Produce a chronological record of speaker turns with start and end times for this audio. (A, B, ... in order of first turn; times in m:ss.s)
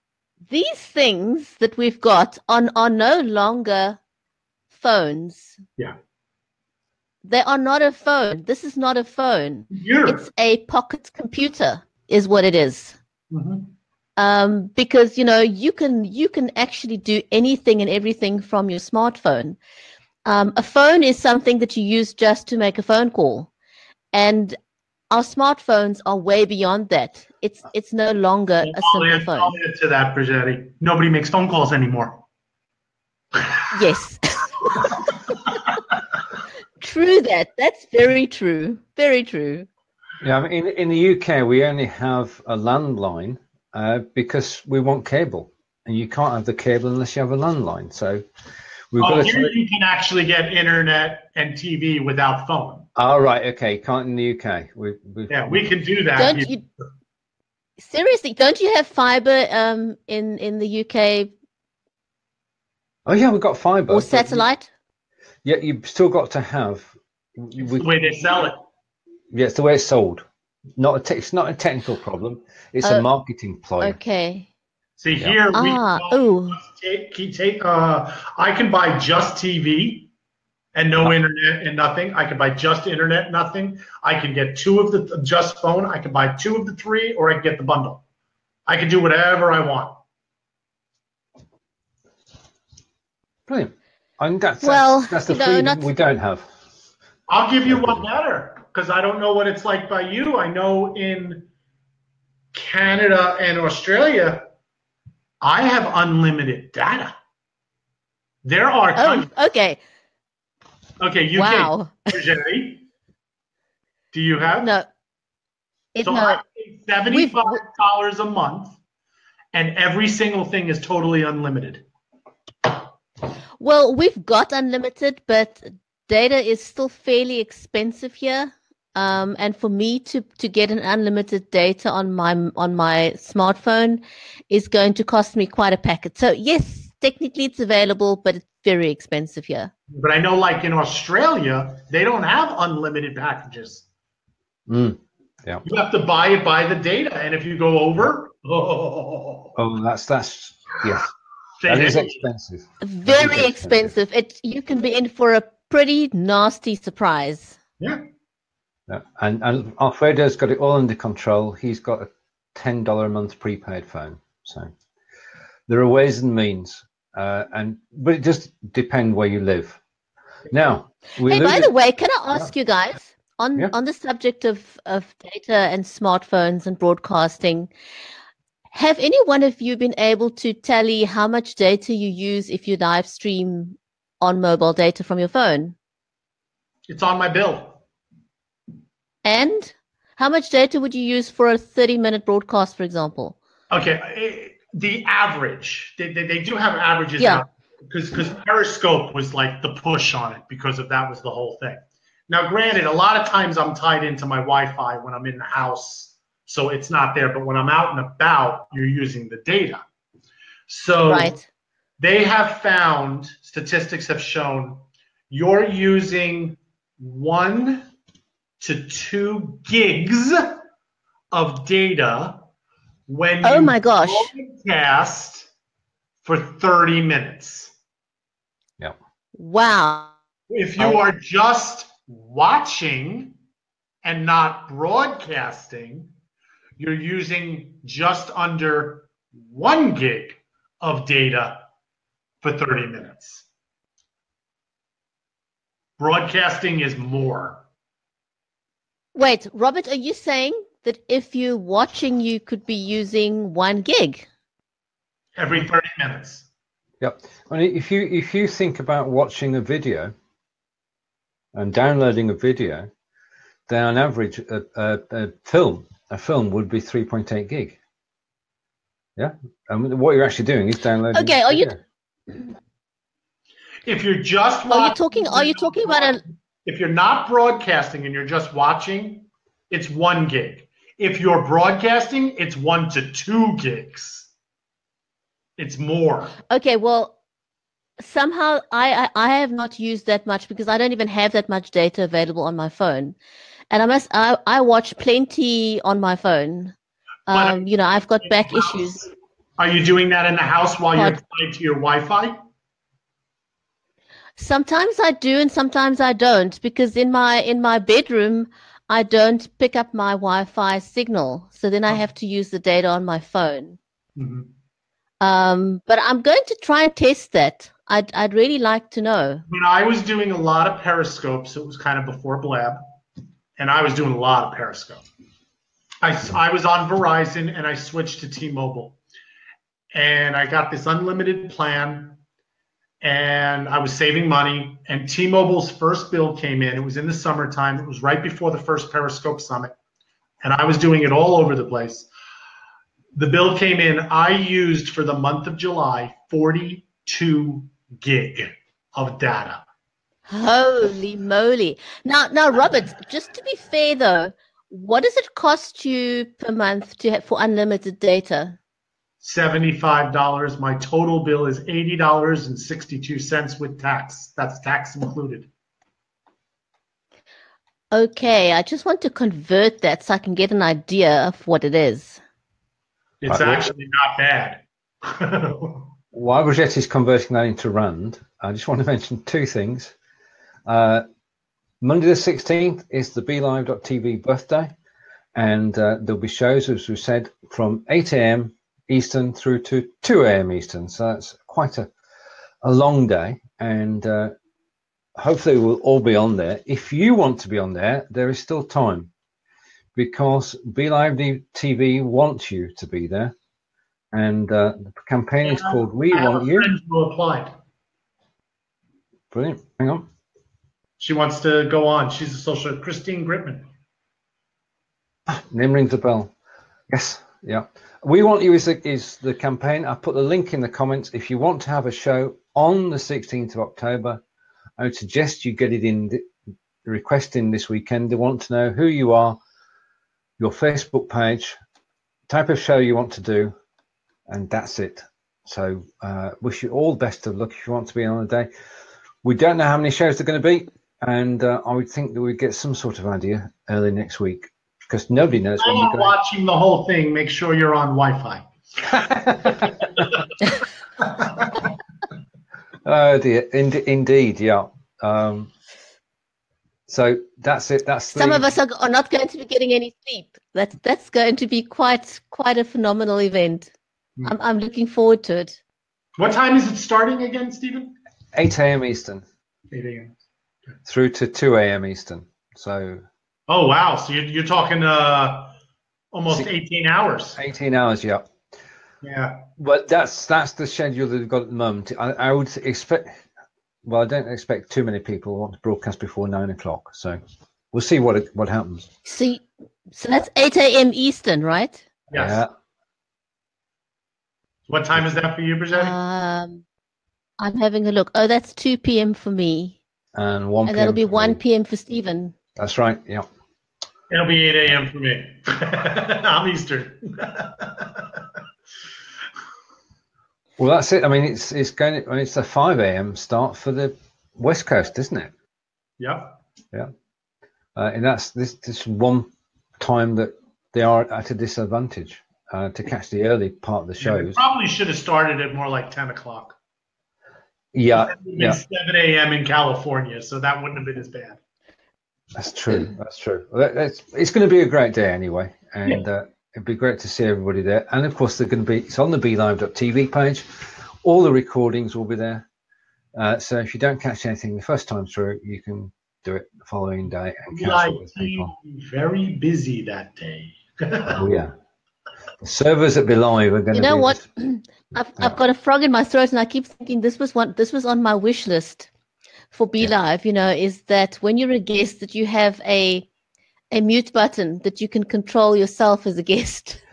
0:00.5-0:04.0 A
0:04.7-0:05.6 A
0:07.2-0:13.0 A
0:09.7-0:10.3 B
0:13.3-0:13.7 B
0:14.2-0:19.6 A
0:20.2-0:23.5 A
0:24.1-0:24.6 A
0:25.1-0:29.6 A
0:28.6-0:32.2 B
0:33.4-0:33.7 B
0:33.7-0:35.0 A
0:36.8-0:39.7 A
0:40.2-0:48.2 C
0:48.9-0:49.5 C
0:49.0-0:52.9 B
0:53.0-0:55.6 C
0:55.3-0:56.6 B
0:56.2-0:56.6 A
0:57.8-1:01.3 A
1:03.1-1:04.5 C
1:03.9-1:04.7 A
1:05.4-1:07.9 C
1:07.6-1:08.6 B
1:09.3-1:10.2 C
1:10.8-1:14.0 C
1:13.8-1:14.5 A
1:15.0-1:20.1 B
1:15.5-1:16.6 A
1:20.7-1:28.0 B
1:28.7-1:30.0 B
1:33.5-1:36.5 C
1:34.6-1:35.9 A
1:37.3-1:41.5 B
1:37.7-1:38.0 C
1:42.5-1:44.5 B
1:45.4-1:47.1 B
1:48.4-1:49.3 B
1:49.0-1:49.8 A
1:51.0-1:52.9 B
1:51.3-1:52.1 A
1:54.1-1:54.7 B
1:54.6-1:54.9 A
1:56.0-1:56.4 A
1:56.0-1:58.8 B
1:57.1-1:57.6 A
1:59.5-2:01.8 B
2:03.6-2:19.7 A
2:19.9-2:23.9 B
2:24.7-2:25.6 C
2:25.6-2:29.5 B
2:29.6-2:31.1 C
2:31.6-2:32.2 B
2:31.7-2:33.9 C
2:32.8-2:37.6 A
2:38.9-2:44.7 C
2:45.7-2:49.8 C
2:50.5-2:51.7 C
2:51.3-2:57.7 A
2:58.7-3:05.8 A
3:06.9-3:07.8 B
3:09.2-3:13.4 A
3:13.7-3:29.8 B
3:30.7-3:31.4 B
3:31.1-3:31.4 A
3:32.0-3:37.9 B
3:38.6-3:40.6 B
3:41.3-3:42.5 B
3:43.1-3:45.5 B
3:43.4-3:44.3 A
3:46.2-3:47.7 B
3:49.4-3:50.1 A
3:50.5-3:53.4 B
3:54.0-3:56.1 B
3:56.8-4:01.6 B
4:02.4-4:03.4 B
4:06.0-4:07.6 B
4:09.2-4:14.3 A
4:15.4-4:16.5 B
4:17.0-4:20.1 C
4:21.5-4:22.9 C
4:23.7-4:27.8 C
4:29.2-4:31.8 C
4:31.1-4:31.7 A
4:33.8-4:44.3 B
4:34.7-4:36.2 A
4:45.6-4:46.4 B
4:46.5-4:47.2 A
4:48.0-4:53.2 A
4:53.7-4:56.7 A
4:57.3-4:59.1 A
4:57.3-4:59.0 B
4:59.6-5:02.4 B
5:04.4-5:13.8 A
5:14.2-5:14.5 B
5:15.2-5:19.4 A
5:19.5-5:22.8 B
5:23.6-5:25.0 B
5:26.0-5:29.0 B
5:29.9-5:32.2 B
5:33.0-5:39.7 B
5:40.4-5:42.1 B
5:43.1-5:49.7 B
5:50.3-5:58.6 A
5:59.2-6:05.5 B
6:07.9-6:12.2 A
6:13.2-6:15.9 B
6:13.3-6:13.7 C
6:16.1-6:19.9 C
6:20.7-6:21.0 C
6:21.8-6:24.7 C
6:25.4-6:31.9 C
6:32.6-6:34.3 C
6:35.2-6:39.1 C
6:40.0-6:43.3 C
6:44.1-6:46.7 C
6:45.4-6:47.5 B
6:49.3-6:50.1 C
6:51.0-6:53.7 B
6:55.3-6:56.3 C
6:56.9-7:04.2 C
7:04.8-7:06.2 C
7:06.8-7:09.4 C
7:10.4-7:11.6 C
7:12.3-7:13.5 C
7:14.3-7:18.5 C
7:19.2-7:26.2 C
7:25.6-7:28.5 B
7:28.9-7:29.7 C
7:29.4-7:30.1 B
7:31.0-7:31.6 B
7:32.8-7:35.5 C
7:36.9-7:38.5 C
7:38.1-7:43.7 A
7:44.2-7:45.6 A
7:46.2-7:48.0 B
7:48.4-7:49.2 C
7:49.7-7:50.2 B
7:50.8-7:53.0 C
7:53.5-7:55.5 B
7:56.1-7:57.4 B
7:57.4-7:58.3 C
7:59.0-7:59.5 B
7:59.6-8:03.2 C
8:03.8-8:07.2 C
8:07.7-8:08.9 C
8:09.0-8:11.8 A
8:12.1-8:12.4 B
8:12.1-8:12.5 C
8:14.7-8:16.0 B
8:15.7-8:16.6 A
8:17.4-8:19.8 A
8:20.2-8:21.4 C
8:20.7-8:22.4 A
8:22.6-8:23.3 C
8:24.1-8:28.3 B
8:30.6-8:35.3 C
8:36.0-8:36.4 B
8:37.8-8:44.4 C
8:44.0-8:46.6 B
8:47.7-8:48.6 C
8:48.0-8:51.4 B
8:52.4-9:02.5 C
9:03.2-9:08.5 C
9:07.5-9:11.2 B
9:11.1-9:11.5 C
9:12.4-9:14.2 C
9:13.7-9:18.9 A
9:19.5-9:23.1 A
9:23.7-9:26.8 A